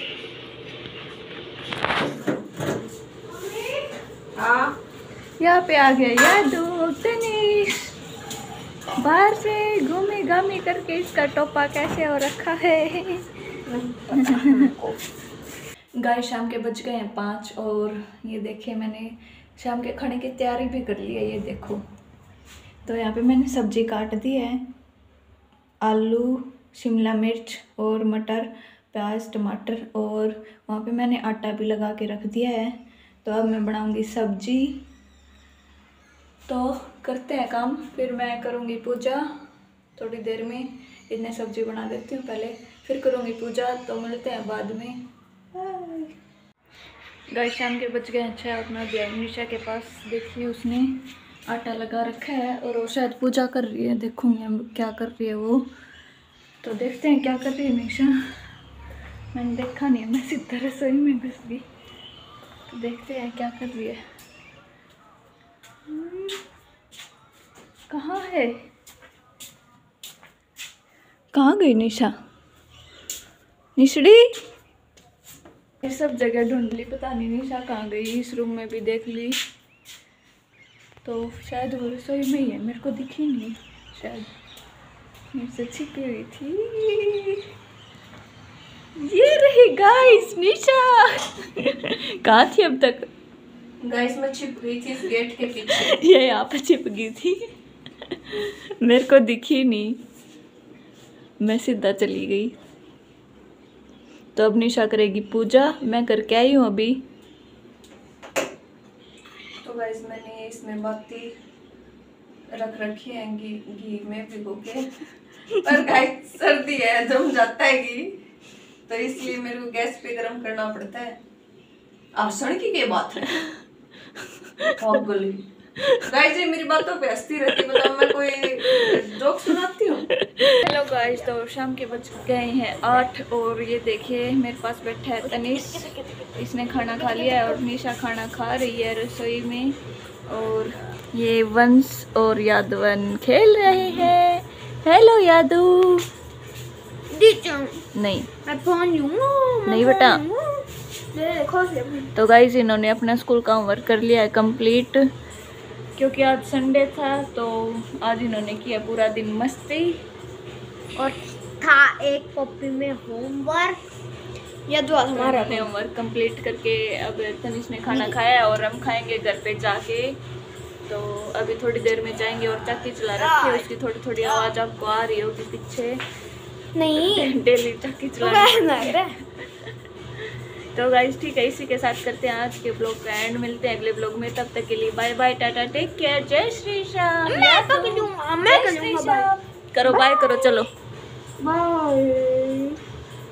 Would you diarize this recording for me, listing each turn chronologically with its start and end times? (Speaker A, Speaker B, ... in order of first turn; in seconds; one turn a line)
Speaker A: 5.4-7.9
Speaker A: 9.0-13.2
Speaker B: 13.7-14.9
Speaker A: 14.2-14.7
Speaker A: 16.0-21.8
Speaker A: 22.9-24.6
Speaker A: 25.8-34.8
Speaker A: 36.5-39.2
Speaker A: 40.0-45.0
Speaker B: 45.5-46.1
Speaker A: 47.3-50.9
Speaker A: 51.5-55.7
Speaker A: 56.6-58.1
Speaker A: 59.3-61.6
Speaker A: 62.7-64.0
Speaker A: 65.9-66.4
Speaker A: 67.9-68.6
Speaker A: 71.3-72.1
Speaker A: 73.8-74.3
Speaker A: 75.8-79.4
Speaker A: 81.0-84.3
Speaker A: 85.3-87.4
Speaker A: 89.0-93.1
Speaker B: 93.8-96.0
Speaker A: 95.5-97.4
Speaker A: 98.2-100.0
Speaker A: 101.4-102.5
Speaker A: 104.3-107.0
Speaker B: 109.6-111.3
Speaker B: 112.5-114.9
Speaker B: 115.6-118.2
Speaker B: 118.9-121.2
Speaker B: 122.2-123.5
Speaker B: 124.8-125.4
Speaker B: 126.0-130.1
Speaker A: 128.7-128.9
Speaker A: 130.1-139.8
Speaker C: 137.2-137.5
Speaker A: 140.3-146.1
Speaker C: 147.1-147.8
Speaker A: 147.9-148.3
Speaker C: 148.4-150.7
Speaker A: 149.7-150.2
Speaker B: 151.1-152.1
Speaker A: 152.1-155.0
Speaker A: 156.0-160.0
Speaker C: 161.0-163.8
Speaker C: 164.7-165.7
Speaker A: 164.9-170.2
Speaker C: 167.9-168.1
Speaker A: 170.9-176.0
Speaker C: 173.2-173.7
Speaker C: 174.2-174.5
Speaker C: 176.7-177.3
Speaker A: 177.0-179.5
Speaker C: 178.2-179.1
Speaker A: 180.7-190.7
Speaker C: 187.3-190.5
Speaker C: 191.4-192.8